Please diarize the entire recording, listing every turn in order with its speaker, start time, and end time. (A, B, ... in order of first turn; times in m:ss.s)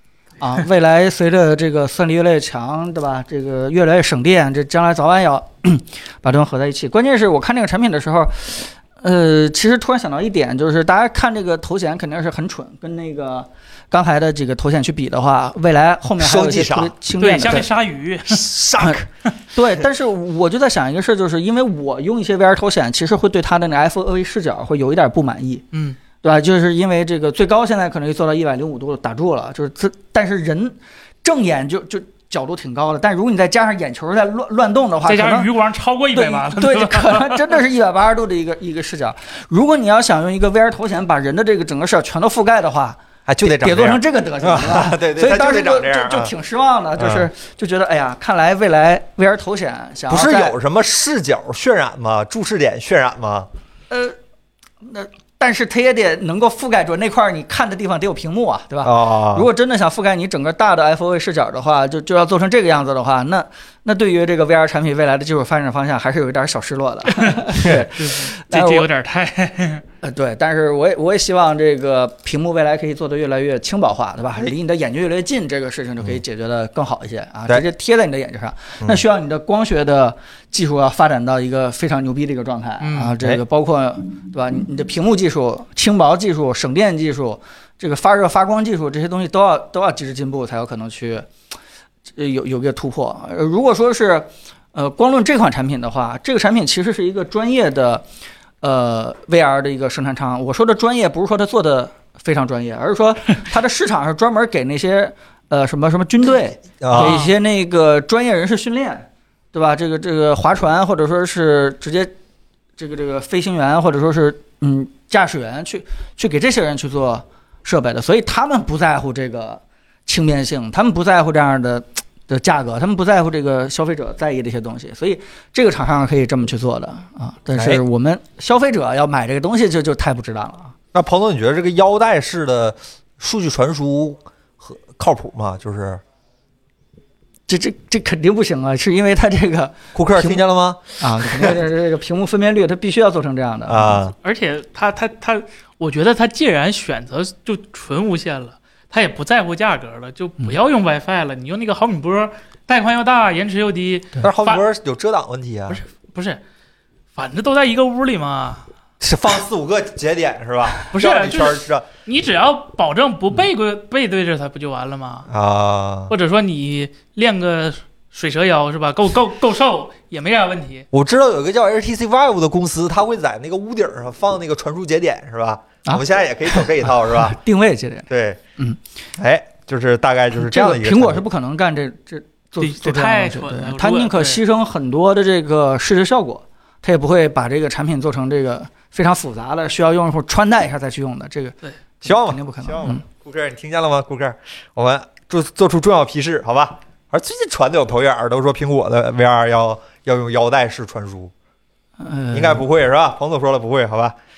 0:00.4-0:17.7 A
0:16.2-0:16.9 B
0:17.2-0:18.4 C
0:18.3-0:19.0 B
0:18.8-0:25.6 A
0:26.2-0:35.5 A
0:35.0-0:37.4 C
0:36.1-0:50.5 A
0:43.3-0:46.3 B
0:47.0-0:47.3 B
0:50.1-0:53.5 B
0:53.9-0:54.2 A
0:54.8-1:08.8 A
0:58.8-0:59.5 B
1:07.1-1:09.8 C
1:10.0-1:31.3 A
1:22.8-1:23.1 C
1:32.1-1:38.0 A
1:38.6-1:52.1 A
1:46.8-1:47.2 B
1:47.0-1:47.3 C
1:52.8-2:10.7 A
2:07.6-2:07.8 B
2:10.9-2:16.0 B
2:17.5-2:20.4 A
2:19.9-2:21.6 B
2:21.0-2:24.0 A
2:23.7-2:24.1 B
2:24.2-2:34.6 C
2:34.2-2:35.8 B
2:35.7-2:36.4 C
2:37.1-2:38.6 C
2:39.0-2:41.8 B
2:40.9-2:45.3 C
2:45.3-2:46.1 B
2:46.1-2:50.8 C
2:50.9-2:57.4 B
2:55.9-2:58.8 A
2:58.1-2:58.4 B
2:59.2-3:01.2 B
3:00.3-3:13.0 A
3:02.6-3:04.4 C
3:12.0-3:21.3 B
3:22.0-3:22.6 A
3:22.3-3:24.1 B